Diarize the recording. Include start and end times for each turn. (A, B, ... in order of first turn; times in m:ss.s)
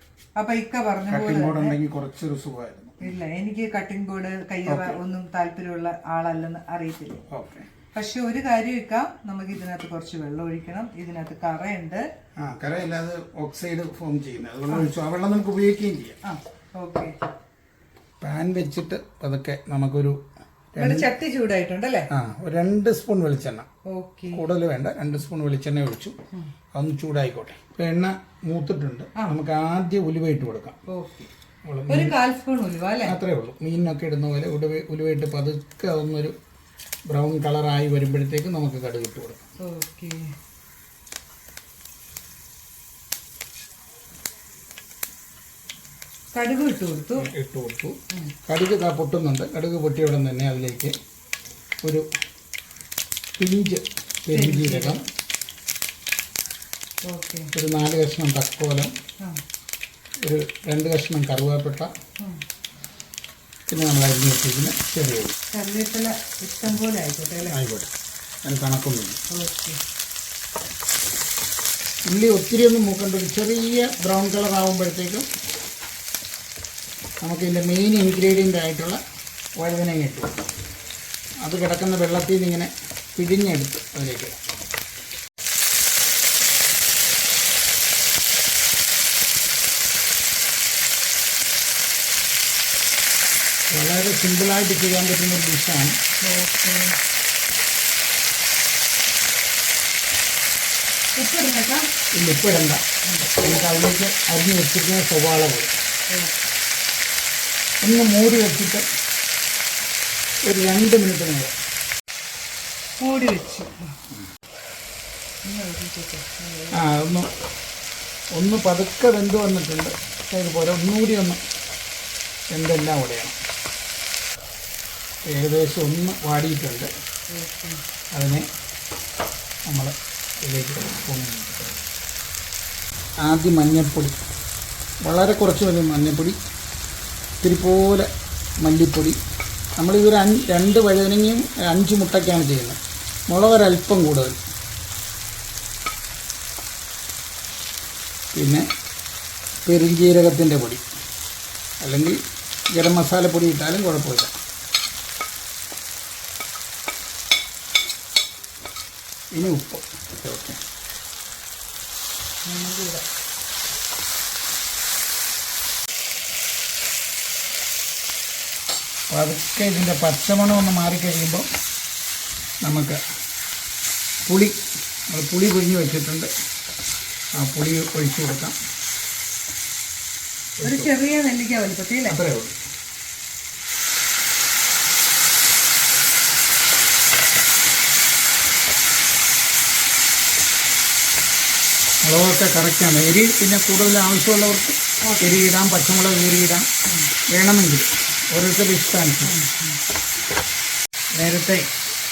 0:00.4-0:01.8 A
0:01.1-0:03.2 B
0:03.0-0:07.2 A
0:04.6-0:05.0 B
0:07.3-0:07.7 B
0:07.9-0:12.0 A
0:12.4-0:16.2 B
0:16.2-0:17.1 A
0:18.2-0:20.2 B
0:20.7-0:21.1 B
0:20.8-0:22.1 A
0:22.1-0:23.7 B
0:23.9-0:24.4 A
0:24.3-0:26.2 B
0:26.7-0:30.8 B
0:30.9-0:31.3 A
0:31.6-0:32.2 B
0:31.9-0:33.2 A
0:33.0-0:36.4 B
0:37.1-0:39.4 B
0:39.6-0:40.3 A
0:46.3-0:47.3 A
0:47.2-0:50.9 B
0:53.4-0:55.0 B
0:54.3-0:55.0 A
0:57.0-0:57.5 A
0:57.5-0:58.9 B
1:00.2-1:01.9 B
1:03.7-1:05.3 B
1:05.5-1:07.6 A
1:07.5-1:07.9 B
1:08.4-1:09.2 B
1:09.3-1:09.8 A
1:12.0-1:15.3 B
1:17.2-1:19.0 B
1:19.6-1:20.4 B
1:21.4-1:24.4 B
1:33.7-1:35.9 B
1:36.2-1:37.0 A
1:41.2-1:41.8 A
1:42.1-1:42.8 B
1:43.3-1:45.7 B
1:47.8-1:48.8 B
1:50.4-1:51.5 B
1:53.0-1:53.8 A
1:55.4-1:56.9 A
1:56.7-1:57.3 B
1:58.4-2:01.4 B
2:02.5-2:03.4 B
2:05.2-2:06.9 B
2:07.3-2:07.8 A
2:08.1-2:08.4 B
2:09.7-2:09.9 B
2:10.4-2:11.8 B
2:13.2-2:14.2 B
2:15.0-2:16.4 B
2:17.4-2:18.1 B
2:18.6-2:19.2 B
2:19.8-2:24.4 B
2:28.3-2:28.6 B
2:29.6-2:30.8 B
2:31.8-2:32.2 B
2:32.8-2:34.3 B
2:39.3-2:40.6 B
2:42.4-2:43.0 A
2:49.1-2:51.5 B
2:52.6-2:53.0 B
2:54.3-2:54.6 B
2:55.1-2:56.3 B
2:57.4-2:58.5 B
3:00.6-3:00.9 B
3:00.6-3:02.2 A
3:02.1-3:02.6 B
3:12.0-3:16.7 B
3:15.0-3:15.4 A
3:16.8-3:17.1 A
3:17.3-3:19.4 B
3:19.2-3:19.8 A
3:21.2-3:21.7 B